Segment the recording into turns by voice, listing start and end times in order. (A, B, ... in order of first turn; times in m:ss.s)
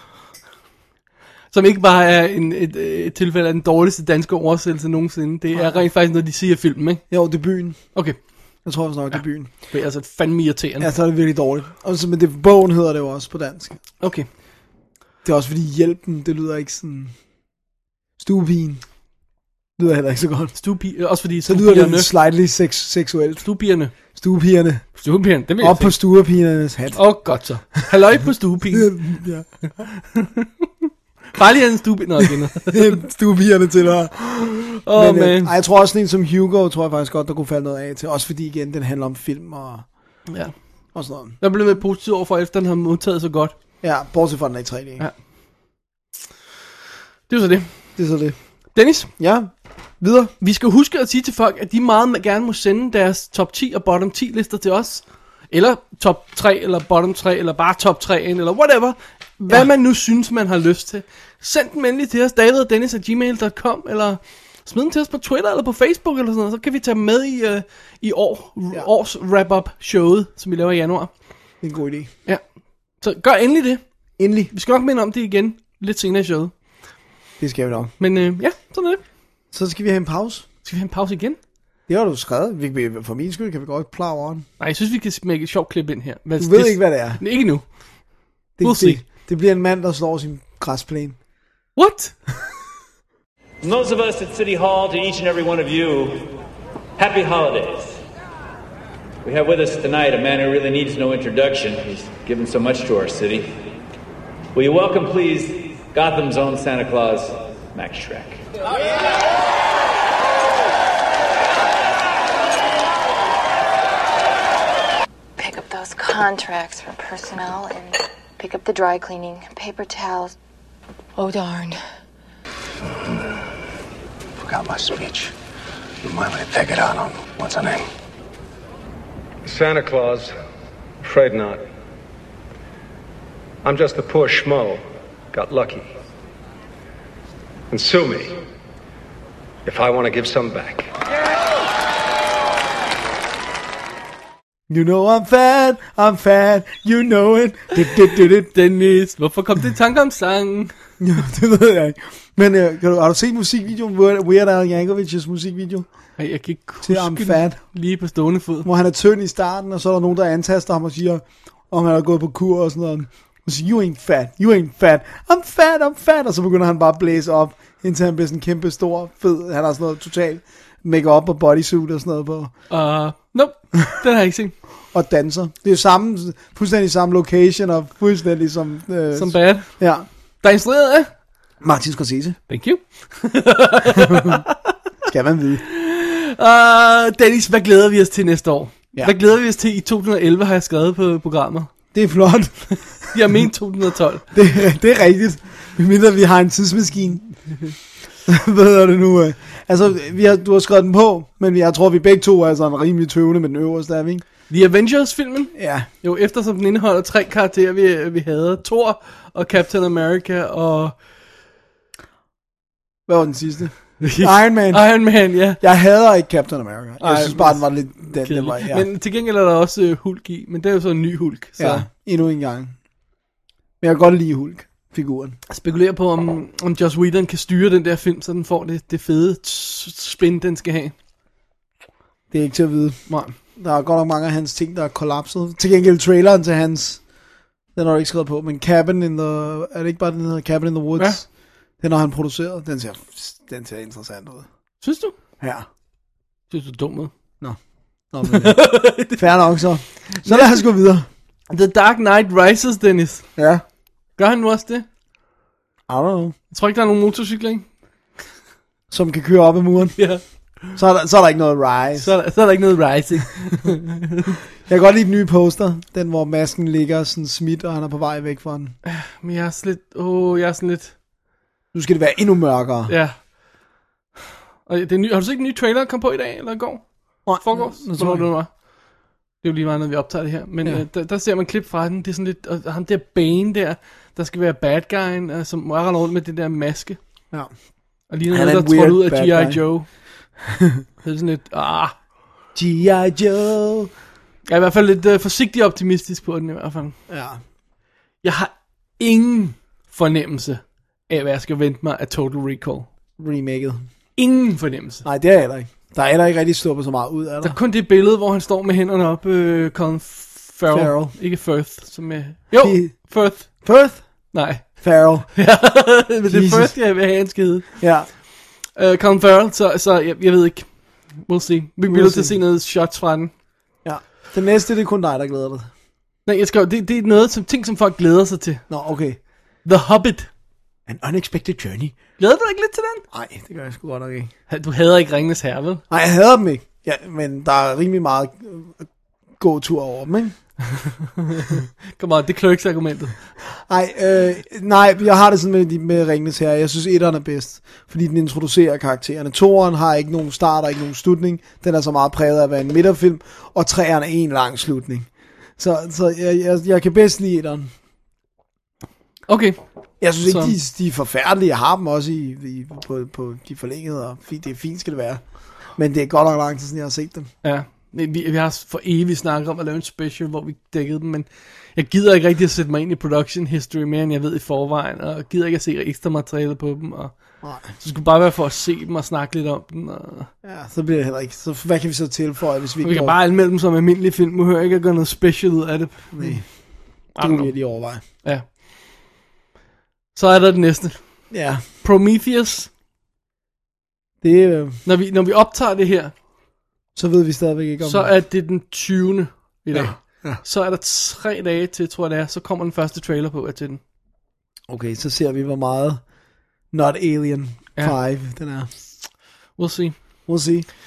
0:01.5-0:07.4 A
0:05.5-0:05.9 B
0:07.1-0:09.5 B
0:07.9-0:10.9 A
0:10.8-0:13.8 B
0:14.0-0:14.3 A
0:15.2-0:17.2 B
0:18.2-0:18.9 B
0:19.8-0:20.7 B
0:20.6-0:22.1 A
0:21.4-0:27.8 B
0:23.4-0:24.2 A
0:25.0-0:26.0 A
0:26.9-0:29.3 A
0:28.7-0:29.8 B
0:30.1-0:30.5 A
0:31.3-0:33.0 A
0:32.7-0:40.2 B
0:34.8-0:35.5 A
0:40.3-0:43.5 A
0:40.9-0:41.4 B
0:43.8-0:45.1 B
0:47.3-0:48.1 A
0:48.0-0:50.3 B
0:48.7-0:49.1 A
0:50.4-1:11.1 A
0:59.4-0:59.7 B
1:11.6-1:12.1 B
1:12.9-1:13.8 A
1:14.2-1:14.5 B
1:14.4-1:16.5 A
1:17.4-1:17.9 B
1:18.0-1:19.0 A
1:19.5-1:20.5 B
1:20.6-1:21.4 A
1:21.9-1:24.5 B
1:24.6-1:29.0 A
1:26.4-1:27.2 B
1:28.6-1:31.2 B
1:31.8-1:32.2 A
1:33.6-1:36.4 C
1:37.0-1:38.0 C
1:39.2-1:43.6 C
1:44.5-1:48.4 C
1:55.4-2:00.4 D
2:01.2-2:01.8 D
2:04.4-2:05.3 E
2:06.0-2:07.8 E
2:09.4-2:10.3 F
2:11.0-2:11.6 F
2:13.6-2:15.9 F
2:17.7-2:18.4 F
2:19.6-2:20.9 F
2:24.7-2:28.5 B
2:28.5-2:30.7 A
2:31.0-2:36.2 B
2:36.2-2:38.7 A
2:36.8-2:37.8 B
2:38.6-2:52.6 B
2:52.7-2:54.6 A
2:54.9-3:00.1 B
2:59.1-3:01.2 A
3:01.6-3:02.4 B
3:02.5-3:04.4 A
3:05.1-3:05.6 B
3:05.7-3:11.7 A
3:11.9-3:13.2 B
3:13.1-3:14.3 A
3:14.3-3:17.7 B
3:18.2-3:24.2 B
3:24.5-3:31.0 A
3:25.6-3:25.9 B
3:33.1-3:38.9 B
3:34.0-3:35.6 A
3:37.0-3:41.9 A
3:41.6-3:42.8 B
3:43.8-3:45.4 B
3:45.5-3:50.9 A
3:52.3-3:57.1 B
3:53.1-3:53.4 A
3:57.8-4:04.5 B
4:04.8-4:05.1 A
4:05.4-4:05.7 B
4:06.5-4:07.1 A
4:07.4-4:11.1 B
4:08.3-4:09.5 A
4:10.1-4:10.7 A
4:11.5-4:13.4 A
4:13.4-4:13.6 B
4:14.2-4:14.9 A
4:15.9-4:16.4 B
4:16.5-4:17.7 A
4:18.9-4:22.2 B
4:20.0-4:20.8 A
4:22.0-4:24.2 A
4:24.7-4:28.8 B
4:28.8-4:31.0 A
4:31.7-4:33.0 B
4:32.9-4:33.3 A
4:34.7-4:38.7 A
4:37.2-4:38.3 B
4:39.4-4:47.2 A
4:47.3-4:50.0 B
4:48.1-4:50.0 A
4:51.0-4:51.9 A
4:52.6-4:53.9 B
4:54.5-4:57.0 A
4:57.1-4:57.4 B
4:58.2-5:02.9 A
5:03.2-5:03.9 B
5:04.2-5:05.0 A
5:05.0-5:07.6 B
5:07.4-5:18.2 A
5:10.7-5:11.2 B
5:12.6-5:16.9 B
5:17.8-5:18.1 B
5:18.7-5:23.3 A
5:21.9-5:22.4 B
5:23.8-5:25.7 B
5:26.2-5:30.3 A
5:28.7-5:29.2 B
5:30.9-5:32.0 B
5:32.2-5:33.0 A
5:33.1-5:34.3 B
5:34.5-5:35.8 A
5:35.9-5:40.7 B
5:40.8-5:43.2 A
5:43.7-5:57.7 B
5:59.3-6:00.6 A
6:00.0-6:07.3 B
6:07.4-6:20.3 A
6:17.4-6:17.8 B
6:20.4-6:23.2 B
6:22.8-6:28.5 A
6:26.1-6:28.0 B
6:30.2-6:32.7 A
6:31.3-6:31.6 B
6:34.2-6:34.8 B
6:34.8-6:36.1 A
6:37.0-6:38.1 B
6:37.8-6:43.8 A
6:39.7-6:40.4 B
6:44.7-6:48.7 B
6:49.5-6:50.0 A
6:50.3-6:50.7 B